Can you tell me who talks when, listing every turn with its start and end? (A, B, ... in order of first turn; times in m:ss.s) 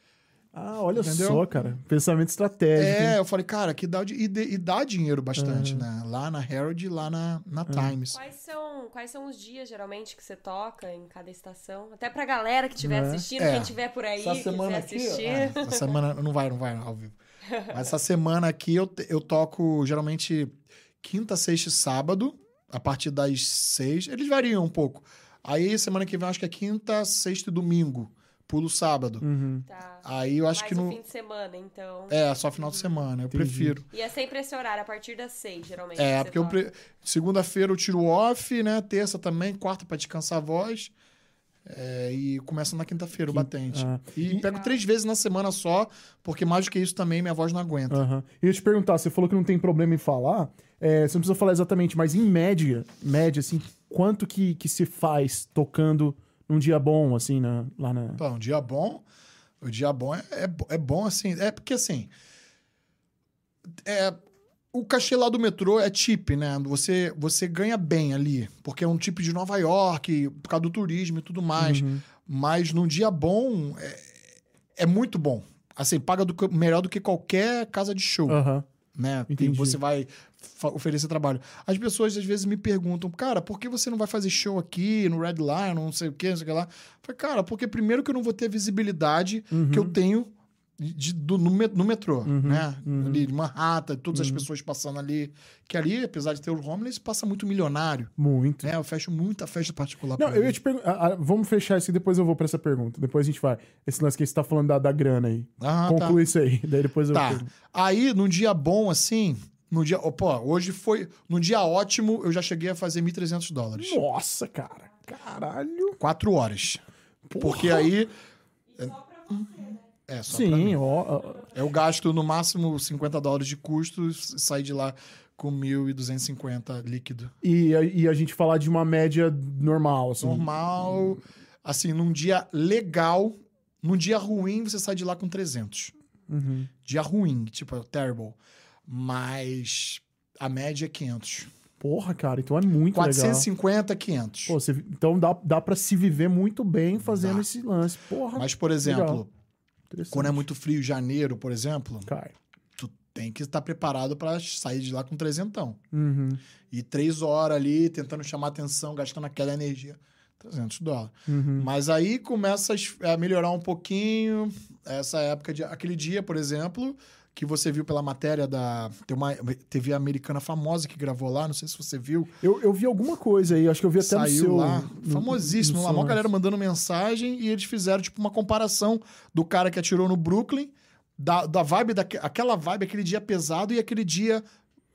0:00.5-0:03.2 A
0:01.0-0:01.5 B
0:02.8-0:08.2 B
0:05.4-0:05.9 A
0:07.7-0:08.0 A
0:08.1-0:15.9 C
0:12.8-0:13.2 A
0:13.4-0:17.2 B
0:17.7-0:29.2 B
0:29.2-0:29.6 A
0:29.7-0:32.9 C
0:30.0-0:31.0 B
0:32.1-0:33.9 B
0:33.3-0:33.8 A
0:33.9-0:36.6 C
0:36.0-0:40.9 B
0:41.7-0:48.0 B
0:43.3-0:44.4 A
0:44.4-0:44.7 C
0:47.9-0:58.2 A
0:58.2-0:59.0 B
0:59.6-1:02.1 B
1:03.8-1:04.2 B
1:04.7-1:14.2 B
1:11.6-1:12.0 A
1:14.8-1:18.4 B
1:18.3-1:18.7 A
1:18.9-1:38.1 B
1:19.3-1:19.8 A
1:29.5-1:30.0 A
1:32.3-1:33.2 A
1:34.1-1:34.4 A
1:38.2-1:38.7 A
1:38.6-1:40.6 B
1:40.2-1:47.5 A
1:45.6-1:46.2 B
1:47.1-1:54.0 B
1:53.8-1:56.0 A
1:56.0-1:56.8 B
1:57.3-1:57.9 A
1:57.4-1:58.1 B
1:58.7-1:59.9 C
2:00.0-2:00.8 B
2:00.3-2:01.5 A
2:01.5-2:07.3 B
2:07.4-2:10.5 A
2:10.2-2:15.9 B
2:16.3-2:16.7 A
2:16.8-2:21.5 B
2:21.8-2:23.5 A
2:22.9-2:24.6 B
2:24.5-2:29.2 A
2:27.0-2:27.5 B
2:28.4-2:29.3 B
2:29.9-2:30.4 A
2:30.1-2:32.1 B
2:32.1-2:32.4 A
2:32.8-2:35.8 B
2:35.9-2:36.4 A
2:36.7-2:52.3 B
2:41.3-2:41.7 A
2:52.4-2:56.2 A
2:54.0-3:04.4 B